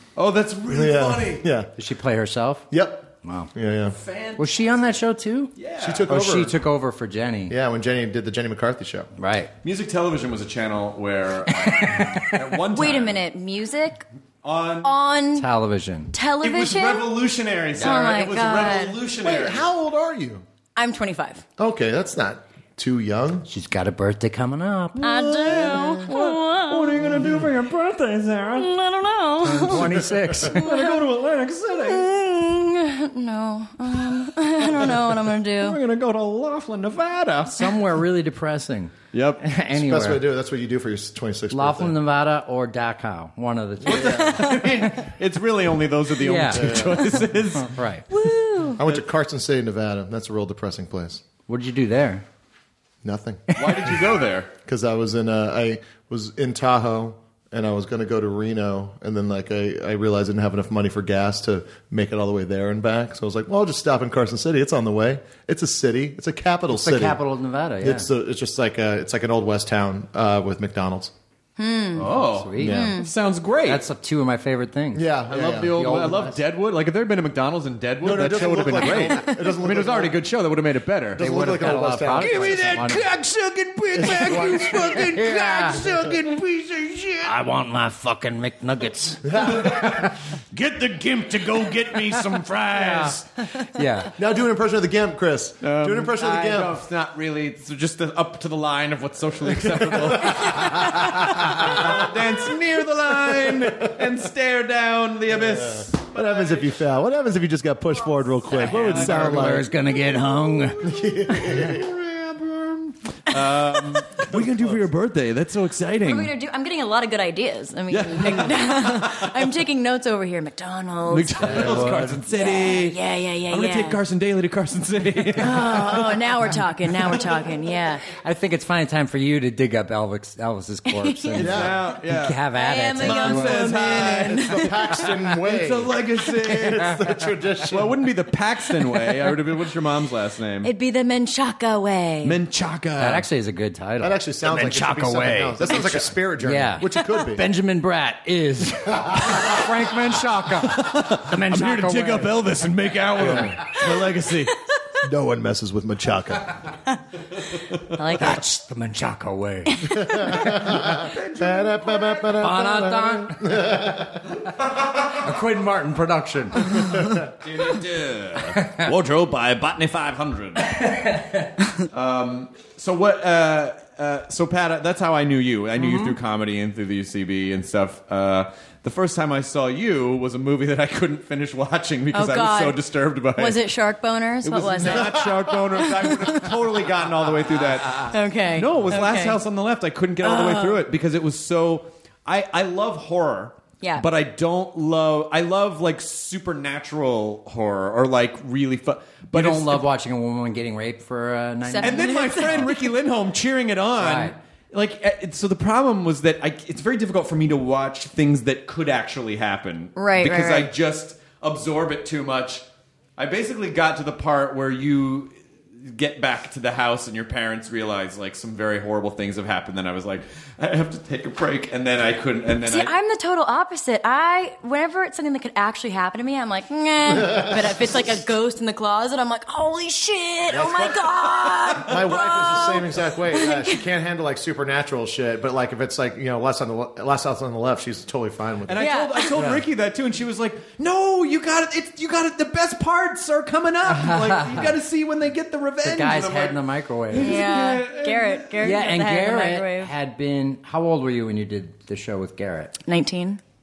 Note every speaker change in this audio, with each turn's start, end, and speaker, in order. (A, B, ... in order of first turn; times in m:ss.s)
0:00.2-0:01.4 A
0:00.7-0:01.7 B
0:01.8-0:02.7 C
0:02.7-0:04.0 B
0:03.2-0:03.5 C
0:03.9-0:04.6 A
0:04.4-0:05.5 C
0:05.6-0:06.1 A
0:05.8-0:06.5 B
0:06.0-0:07.5 C
0:07.5-0:09.1 B
0:09.2-0:09.5 C
0:09.6-0:13.2 A
0:11.6-0:12.2 C
0:12.7-0:14.0 D
0:14.4-0:15.0 A
0:14.8-0:15.4 D
0:15.4-0:16.1 C
0:16.1-0:19.0 D
0:16.4-0:19.6 A
0:17.8-0:18.2 C
0:19.2-0:20.4 B
0:20.8-0:21.4 D
0:21.6-0:23.4 B
0:23.5-0:25.0 C
0:25.0-0:28.7 A
0:25.0-0:27.1 D
0:27.1-0:27.4 B
0:28.5-0:29.9 D
0:29.4-0:30.7 C
0:29.7-0:30.5 B
0:30.5-0:32.0 A
0:30.6-0:31.1 D
0:31.7-0:35.8 D
0:34.7-0:35.0 A
0:35.6-0:37.9 A
0:37.4-0:40.2 C
0:39.1-0:39.4 A
0:39.7-0:41.9 B
0:41.5-0:44.9 C
0:43.9-0:44.4 B
0:43.9-0:47.8 A
0:44.0-0:44.6 D
0:46.2-0:48.0 C
0:46.5-0:47.1 B
0:48.1-0:48.8 D
0:48.8-0:51.2 B
0:51.5-0:52.2 C
0:53.0-0:54.0 B
0:53.5-0:54.5 A
0:54.6-1:07.2 B
1:06.7-1:08.1 C
1:07.8-1:11.1 B
1:11.6-1:12.1 D
1:12.0-1:13.8 A
1:12.3-1:12.9 C
1:12.6-1:13.0 B
1:12.7-1:13.1 D
1:13.6-1:16.4 C
1:14.9-1:15.7 B
1:15.3-1:21.2 A
1:18.0-1:20.1 B
1:21.1-1:22.8 B
1:21.2-1:23.1 C
1:22.2-1:27.4 A
1:24.0-1:25.1 B
1:24.0-1:25.9 C
1:27.2-1:30.1 C
1:29.3-1:30.0 B
1:29.6-1:29.9 A
1:30.5-1:33.2 A
1:32.1-1:33.2 C
1:33.7-1:34.1 C
1:34.2-1:36.8 B
1:35.6-1:46.8 A
1:39.8-1:42.1 B
1:43.2-1:43.9 B
1:45.3-1:49.7 B
1:48.4-1:49.6 A
1:48.5-1:50.8 C
1:50.6-1:56.3 A
1:50.8-1:51.9 B
1:54.3-1:54.8 B
1:56.0-2:04.0 D
1:57.9-1:59.3 A
2:01.1-2:03.0 A
2:01.4-2:02.2 C
2:03.5-2:06.2 A
2:05.4-2:08.1 D
2:08.2-2:13.9 C
2:10.9-2:11.5 D
2:11.4-2:12.4 A
2:11.4-2:11.8 B
2:12.5-2:14.6 D
2:13.0-2:14.5 A
2:14.4-2:18.0 B
2:15.3-2:17.0 A
2:17.7-2:20.7 A
2:20.6-2:22.4 D
2:22.2-2:23.2 A
2:23.0-2:32.5 C
2:24.0-2:27.4 B
2:30.6-2:34.5 A
2:33.2-2:33.7 B
2:35.0-2:36.6 B
2:38.0-2:38.4 D
2:38.1-2:40.8 C
2:40.2-2:44.2 B
2:40.8-2:42.5 A
2:42.4-2:43.8 C
2:45.2-2:46.9 C
2:47.4-2:50.8 A
2:48.6-2:48.9 C
2:51.9-3:03.6 A
3:02.1-3:05.2 D
3:04.4-3:19.8 A
3:05.0-3:05.5 B
3:05.8-3:06.8 D
3:07.7-3:08.1 C
3:08.0-3:09.4 D
3:10.2-3:10.8 D
3:13.8-3:14.1 D
3:19.3-3:22.7 C
3:21.6-3:22.8 D
3:21.8-3:32.6 A
3:24.0-3:24.4 C
3:30.0-3:30.7 D
3:33.2-3:42.9 A
3:42.6-3:53.8 D
3:50.5-3:51.1 B
3:51.5-3:51.9 A
3:51.8-3:58.8 B
3:58.7-4:06.6 A
3:58.8-3:59.3 D
3:59.3-3:59.6 B
4:03.8-4:04.8 C
4:05.8-4:07.4 C
4:07.1-4:08.6 A
4:07.2-4:09.9 D
4:08.6-4:12.7 C
4:12.8-4:13.4 D